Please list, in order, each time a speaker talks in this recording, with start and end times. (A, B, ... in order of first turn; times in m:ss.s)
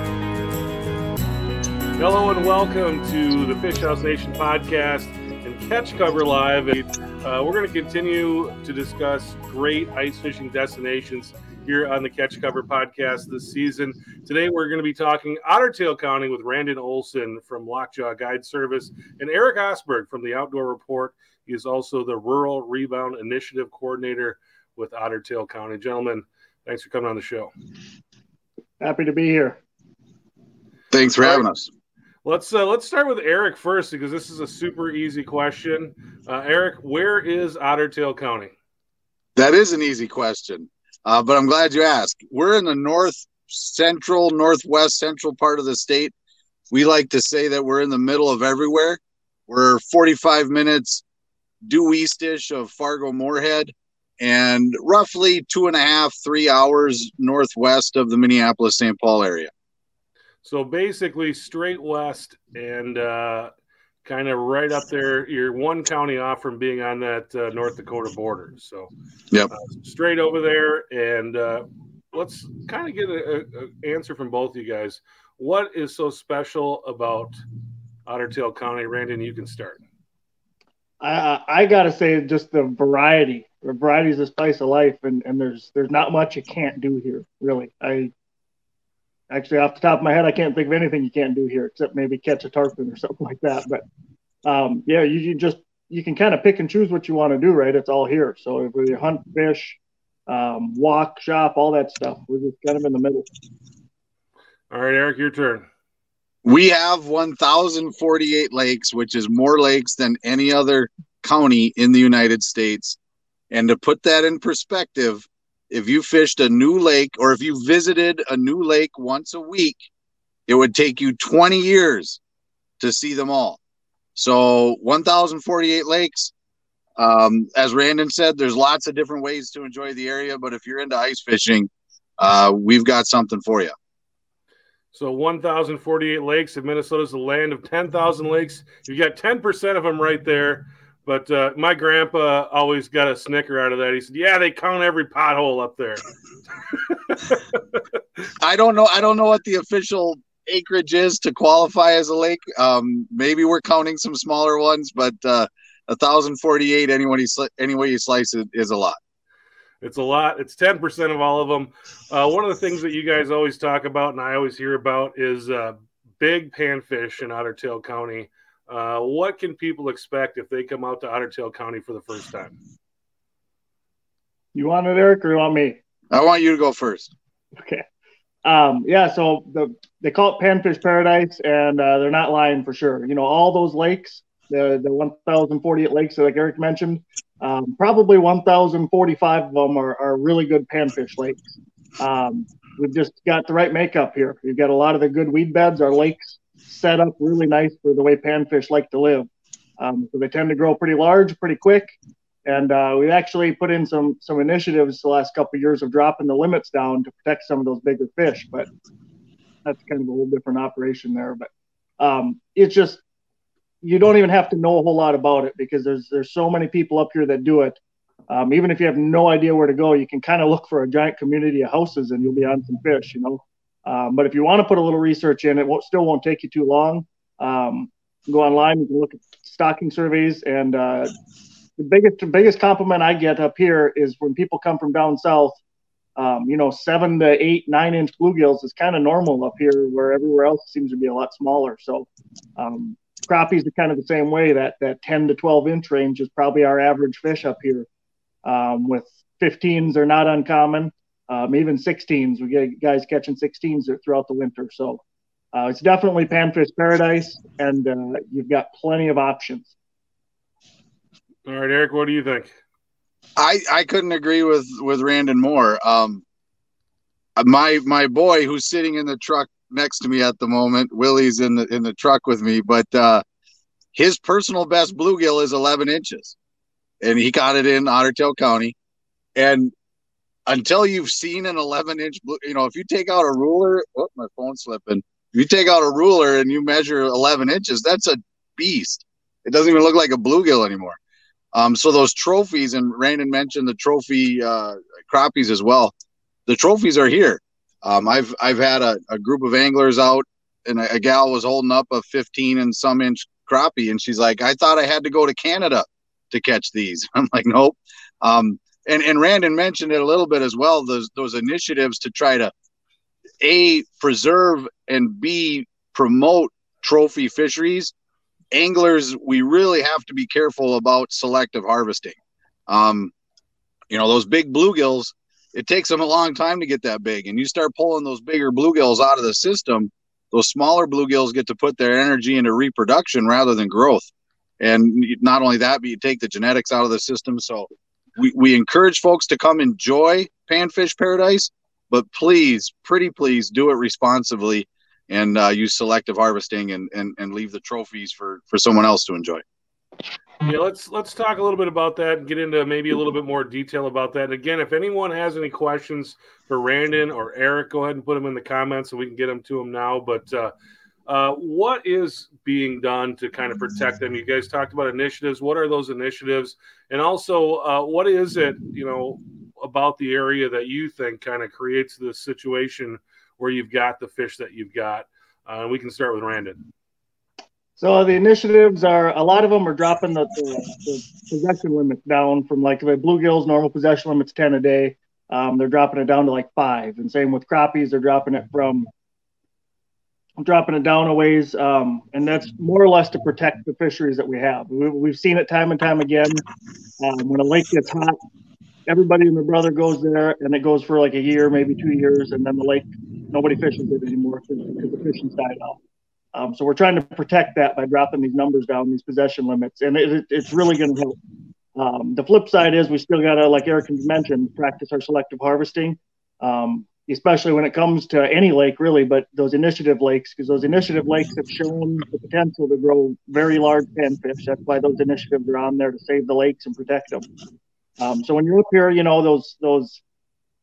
0:02.0-0:27.5 A
0:28.8-0:29.6 B
0:30.9-0:31.7 C
0:31.2-0:31.5 A
0:32.2-0:38.5 A
0:39.4-0:46.1 C
0:46.7-0:51.0 C
0:51.6-0:59.5 C
1:00.4-1:03.5 A
1:04.0-1:08.9 A
1:09.8-1:17.4 A
1:18.1-1:19.8 A
1:21.0-1:28.1 B
1:29.3-1:33.8 B
1:34.4-1:43.2 B
1:44.7-1:45.6 A
1:46.4-1:53.0 C
1:53.5-1:59.9 C
2:00.5-2:02.2 C
2:02.8-2:03.6 C
2:04.1-2:06.3 C
2:07.0-2:13.7 C
2:14.9-2:26.0 A
2:27.0-2:27.6 A
2:28.4-2:39.0 C
2:39.8-2:52.5 A
2:54.5-2:55.8 B
2:56.1-2:57.1 C
2:57.6-2:57.8 B
2:58.4-3:11.4 B
3:12.0-3:19.3 B
3:19.8-3:28.7 B
3:29.6-3:31.5 B
3:32.0-3:33.0 B
3:33.8-3:51.1 B
3:51.8-3:55.6 B
3:56.2-4:07.9 B
4:08.4-4:15.0 B
4:15.5-4:19.7 B
4:21.4-4:22.5 A
4:23.4-4:26.2 C
4:27.4-4:33.2 C
4:33.9-4:36.4 C
4:37.0-4:38.7 C
4:39.4-4:39.7 C
4:40.5-4:51.0 C
4:51.5-4:55.9 C
4:56.5-5:12.5 C
5:13.4-5:17.9 C
5:18.5-5:22.2 C
5:22.7-5:23.1 C
5:23.9-5:34.1 C
5:34.6-5:49.4 C
5:50.4-6:00.5 A
6:01.1-6:16.6 A
6:17.8-6:28.9 B
6:30.4-6:36.4 B
6:37.0-6:38.2 B
6:38.9-6:45.8 B
6:46.3-6:51.2 B
6:51.8-7:07.3 B
7:08.0-7:10.0 B